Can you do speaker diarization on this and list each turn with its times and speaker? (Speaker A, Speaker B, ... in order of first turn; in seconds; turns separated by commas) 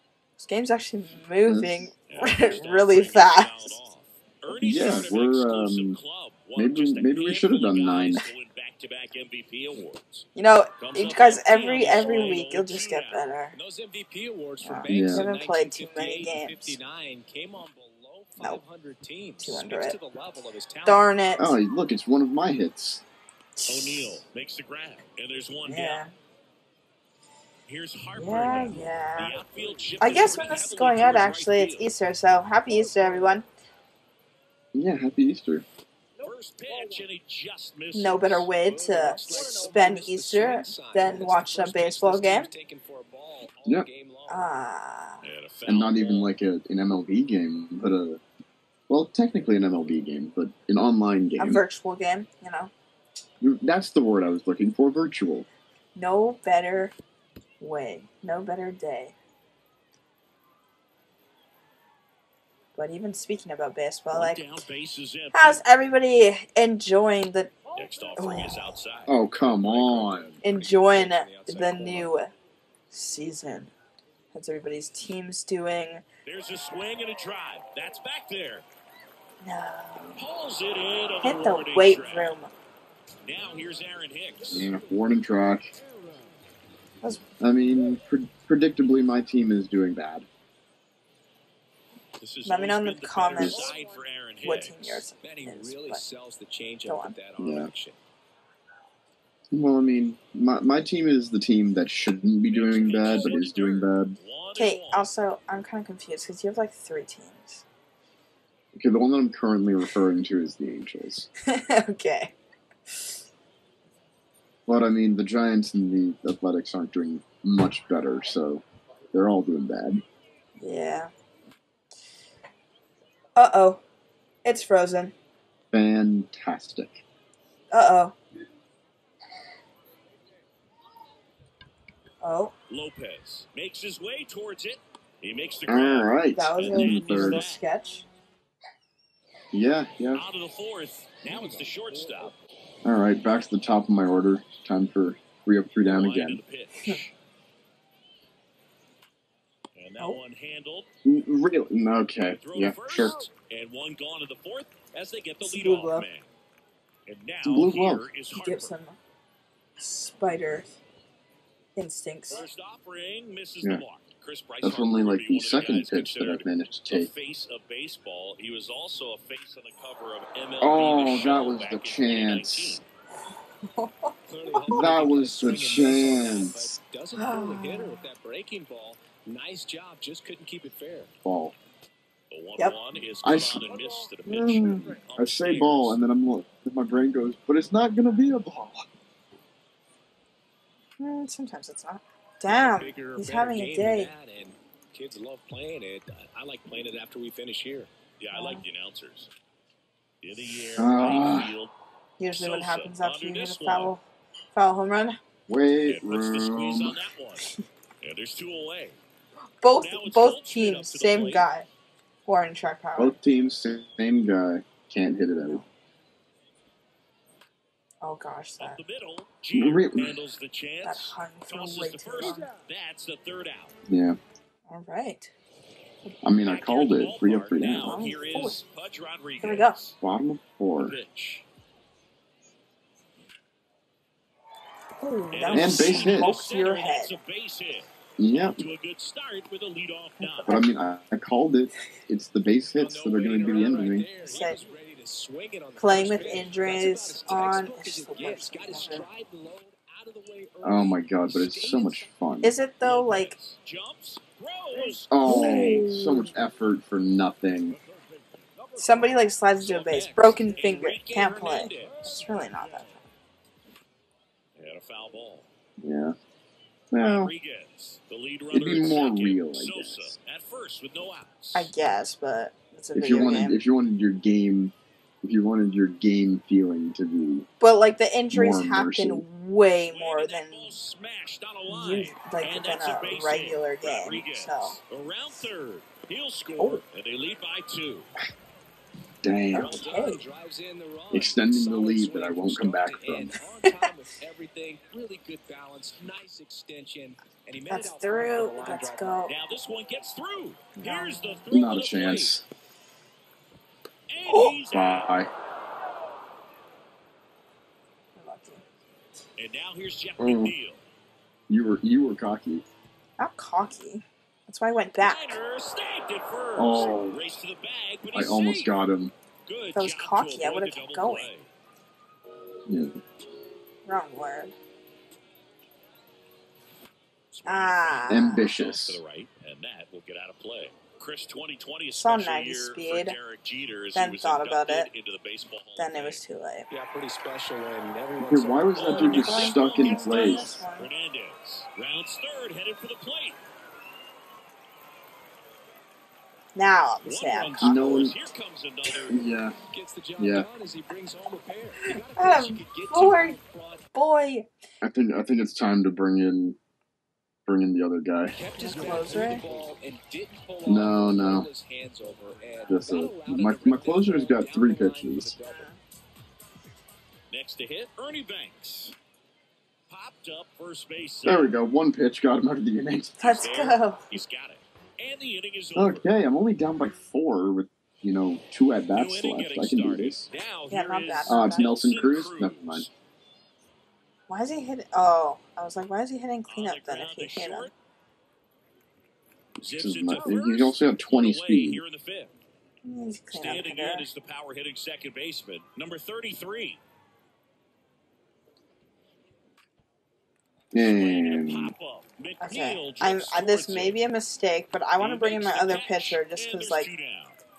Speaker A: 0.4-3.8, Speaker B: 1.4-1.9, Speaker C: 2.1-10.3, Speaker B: 4.5-6.0, Speaker B: 6.5-8.2, Speaker A: 10.3-13.6, Speaker C: 10.8-13.2, Speaker D: 13.5-21.1, Speaker A: 14.6-16.8, Speaker B: 14.9-15.3, Speaker A: 19.4-19.9, Speaker A: 20.8-21.6, Speaker B: 21.4-23.0, Speaker A: 23.6-24.2, Speaker C: 23.7-26.0, Speaker A: 25.6-26.1, Speaker C: 27.7-31.9, Speaker A: 28.1-29.4, Speaker D: 28.8-30.6, Speaker A: 30.0-33.5, Speaker B: 34.7-35.6, Speaker C: 36.2-38.5, Speaker A: 37.9-42.5, Speaker D: 38.5-44.5, Speaker A: 44.3-45.3, Speaker C: 45.2-46.3, Speaker B: 45.6-48.2, Speaker B: 48.9-51.6, Speaker A: 51.4-52.7, Speaker B: 53.4-55.5, Speaker A: 55.9-56.9, Speaker A: 57.6-59.1, Speaker A: 62.7-64.4, Speaker C: 64.1-65.6, Speaker A: 65.3-67.6, Speaker C: 67.7-70.3, Speaker A: 68.2-68.8, Speaker B: 69.1-70.3, Speaker D: 70.3-72.1, Speaker A: 70.4-72.3, Speaker A: 72.9-73.7, Speaker A: 74.3-76.0, Speaker C: 76.2-78.6, Speaker A: 79.4-80.2, Speaker C: 80.2-82.3, Speaker A: 81.2-82.5, Speaker C: 83.2-84.7, Speaker B: 84.5-85.7, Speaker B: 87.4-90.3, Speaker C: 92.2-95.1, Speaker A: 92.4-93.8, Speaker B: 93.3-93.7, Speaker A: 94.4-96.0, Speaker D: 95.2-98.0, Speaker A: 96.8-97.2, Speaker B: 97.4-97.7, Speaker B: 99.5-104.2, Speaker C: 102.5-105.1, Speaker A: 104.6-107.6, Speaker B: 108.7-111.3, Speaker A: 111.4-112.3, Speaker B: 114.7-120.0, Speaker A: 120.6-121.1, Speaker A: 123.3-123.8, Speaker A: 124.4-125.1, Speaker B: 125.7-127.0, Speaker A: 127.7-128.1, Speaker A: 132.2-132.5, Speaker C: 132.7-137.6, Speaker B: 135.7-137.5, Speaker A: 136.3-138.0, Speaker B: 139.5-140.2, Speaker C: 140.1-142.3, Speaker D: 141.2-142.3, Speaker B: 142.8-146.4, Speaker C: 145.8-147.1, Speaker C: 149.7-150.9, Speaker B: 151.0-153.1, Speaker C: 152.2-156.3, Speaker A: 155.4-156.1, Speaker C: 157.1-158.8, Speaker B: 157.4-158.1, Speaker A: 158.3-159.0, Speaker A: 159.8-160.7, Speaker A: 161.8-162.4, Speaker C: 162.3-172.8, Speaker B: 164.6-167.1, Speaker B: 170.6-172.8, Speaker A: 173.6-174.8, Speaker D: 174.2-181.1, Speaker B: 174.7-176.7, Speaker A: 177.1-178.1, Speaker B: 181.2-181.6, Speaker C: 182.3-186.0, Speaker B: 183.2-183.6, Speaker B: 184.2-188.9, Speaker A: 191.0-194.1, Speaker D: 192.4-197.9, Speaker C: 198.2-199.3, Speaker A: 198.3-198.6, Speaker C: 200.2-201.7, Speaker B: 200.8-201.6, Speaker A: 202.2-204.0, Speaker C: 202.3-203.9, Speaker A: 204.5-205.2, Speaker B: 205.5-207.0, Speaker C: 205.8-209.0, Speaker A: 209.6-211.7, Speaker C: 209.8-211.5, Speaker A: 212.2-213.2, Speaker B: 213.0-215.6, Speaker A: 218.0-218.8, Speaker C: 218.6-223.7, Speaker B: 219.5-220.2, Speaker A: 220.8-222.5, Speaker B: 223.9-224.2, Speaker A: 224.7-225.3, Speaker B: 226.2-228.0, Speaker C: 226.4-229.9, Speaker A: 227.6-228.6, Speaker A: 229.4-229.9, Speaker B: 230.0-230.9, Speaker C: 230.8-231.4, Speaker A: 235.0-237.2, Speaker C: 235.3-240.6, Speaker B: 235.5-236.4, Speaker B: 238.2-238.6, Speaker A: 240.2-240.6, Speaker B: 240.5-244.1, Speaker D: 242.8-252.1, Speaker A: 244.2-244.6, Speaker A: 245.8-249.0, Speaker B: 250.6-252.5, Speaker A: 252.4-253.4, Speaker C: 252.8-255.1, Speaker B: 255.1-257.8, Speaker A: 255.2-256.4, Speaker A: 258.8-263.0, Speaker C: 259.6-262.4, Speaker C: 264.6-265.5, Speaker B: 265.8-266.1, Speaker B: 266.9-267.3, Speaker C: 267.0-271.7, Speaker B: 268.5-270.2, Speaker A: 271.5-273.6, Speaker B: 272.9-277.5, Speaker A: 277.6-280.8, Speaker B: 278.3-279.2, Speaker C: 279.9-288.1, Speaker A: 281.7-284.8, Speaker A: 286.6-286.8, Speaker B: 289.2-289.8, Speaker A: 289.5-290.2, Speaker D: 289.5-299.2, Speaker B: 291.1-293.3, Speaker A: 297.7-299.3, Speaker C: 299.3-302.4, Speaker A: 300.7-301.4, Speaker B: 301.5-302.4, Speaker C: 304.1-305.1, Speaker A: 304.3-304.5, Speaker B: 304.7-305.3, Speaker A: 308.1-308.6, Speaker C: 309.4-310.8, Speaker B: 310.2-310.5, Speaker B: 311.5-312.6, Speaker A: 313.2-315.4, Speaker C: 315.0-318.8, Speaker B: 316.6-317.2, Speaker B: 318.1-319.1, Speaker C: 319.4-321.5, Speaker A: 319.7-321.3, Speaker B: 322.7-322.9, Speaker A: 323.8-324.5, Speaker C: 327.3-336.2, Speaker A: 327.4-328.5, Speaker B: 328.1-329.0, Speaker A: 331.9-333.2, Speaker A: 333.9-334.9, Speaker A: 335.8-336.7, Speaker D: 336.7-339.3, Speaker B: 338.2-340.6, Speaker C: 338.7-343.4, Speaker A: 338.9-340.9, Speaker A: 346.6-348.1, Speaker C: 347.0-349.2, Speaker B: 347.6-348.1, Speaker B: 349.1-349.6, Speaker D: 349.7-353.8, Speaker B: 350.2-350.5, Speaker A: 351.8-353.4, Speaker A: 353.9-354.5, Speaker B: 354.8-356.6, Speaker B: 357.4-358.4, Speaker D: 358.3-365.7, Speaker A: 358.6-359.4, Speaker B: 360.6-361.5, Speaker B: 362.7-365.3, Speaker A: 365.4-365.8, Speaker C: 367.3-368.9, Speaker C: 369.9-371.6, Speaker B: 371.2-373.5, Speaker A: 373.2-374.2, Speaker C: 373.4-376.1, Speaker B: 375.8-380.3, Speaker C: 378.9-382.9, Speaker A: 380.7-381.8, Speaker B: 381.3-382.9, Speaker A: 384.3-387.7, Speaker C: 386.5-387.7, Speaker B: 389.6-391.8, Speaker C: 389.6-392.3, Speaker A: 392.8-394.1, Speaker C: 393.3-396.8, Speaker B: 400.7-401.7, Speaker C: 400.7-403.9, Speaker A: 402.4-406.9, Speaker C: 405.0-407.4